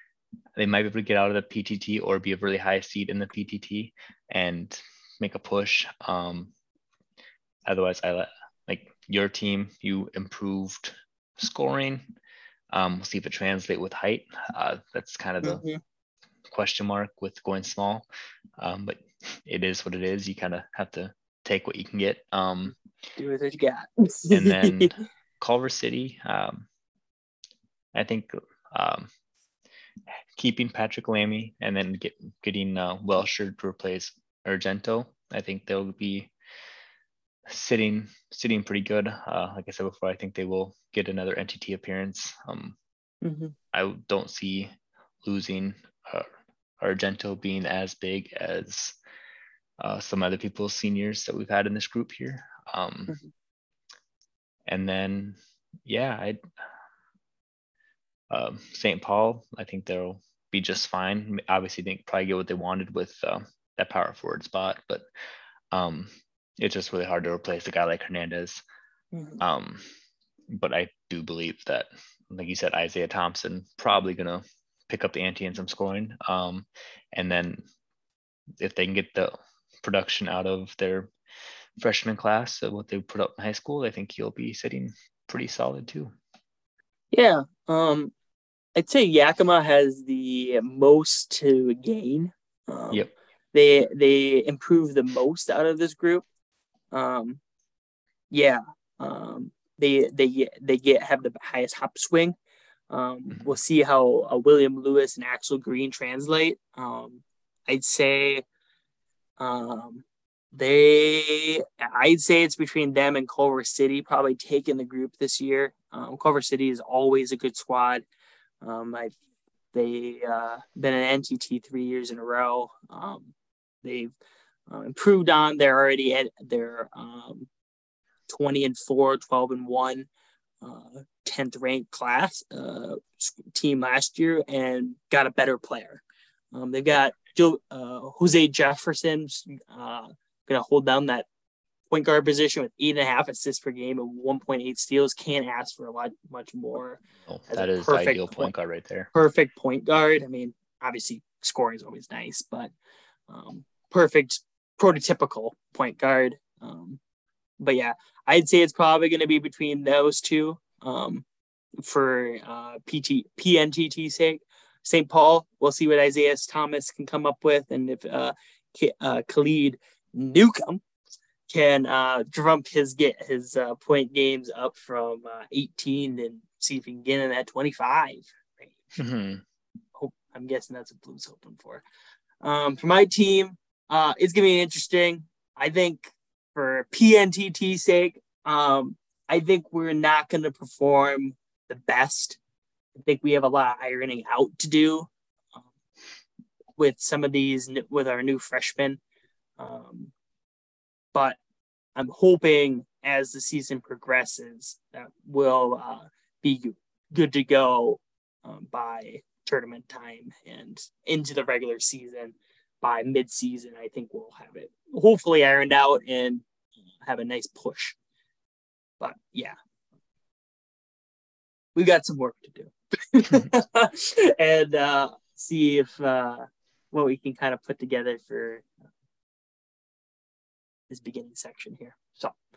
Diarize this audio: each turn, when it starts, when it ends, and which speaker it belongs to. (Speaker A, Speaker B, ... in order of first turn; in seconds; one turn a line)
Speaker A: 0.6-6.5
Speaker A: 7.7-12.1
Speaker A: 12.7-15.6
Speaker B: 15.4-15.8
Speaker A: 16.5-18.1
Speaker A: 18.6-22.8
Speaker B: 23.2-24.9
Speaker A: 24.3-26.7
Speaker A: 27.9-29.1
Speaker A: 30.4-36.3
Speaker A: 37.5-42.8
Speaker B: 43.2-43.5
Speaker A: 43.7-44.7
Speaker A: 45.2-46.3
Speaker A: 46.8-49.0
Speaker A: 49.8-53.2
Speaker A: 54.7-56.4
Speaker A: 58.3-65.1
Speaker A: 65.7-68.6
Speaker B: 69.1-69.4
Speaker A: 69.4-69.8
Speaker A: 70.5-77.6
Speaker A: 78.6-81.1
Speaker A: 81.8-86.1
Speaker B: 87.1-88.1
Speaker B: 88.8-96.2
Speaker B: 96.9-97.4
Speaker B: 98.3-102.3
Speaker B: 102.9-108.4
Speaker B: 109.4-118.0
Speaker B: 118.6-119.2
Speaker B: 119.7-123.3
Speaker B: 123.8-124.1
Speaker B: 124.7-127.5
Speaker B: 128.3-130.1
Speaker B: 130.6-141.3
Speaker B: 141.9-148.5
Speaker A: 147.3-149.1
Speaker B: 149.1-152.7
Speaker B: 153.3-157.0
Speaker B: 157.6-161.2
Speaker B: 161.8-170.8
Speaker B: 171.5-178.8
Speaker A: 179.0-179.4
Speaker B: 180.0-181.8
Speaker B: 182.4-192.4
Speaker B: 192.9-195.1
Speaker B: 196.8-199.0
Speaker B: 199.6-200.1
Speaker B: 201.9-216.4
Speaker B: 217.0-218.0
Speaker B: 219.0-219.6
Speaker B: 221.8-228.7
Speaker B: 230.9-232.4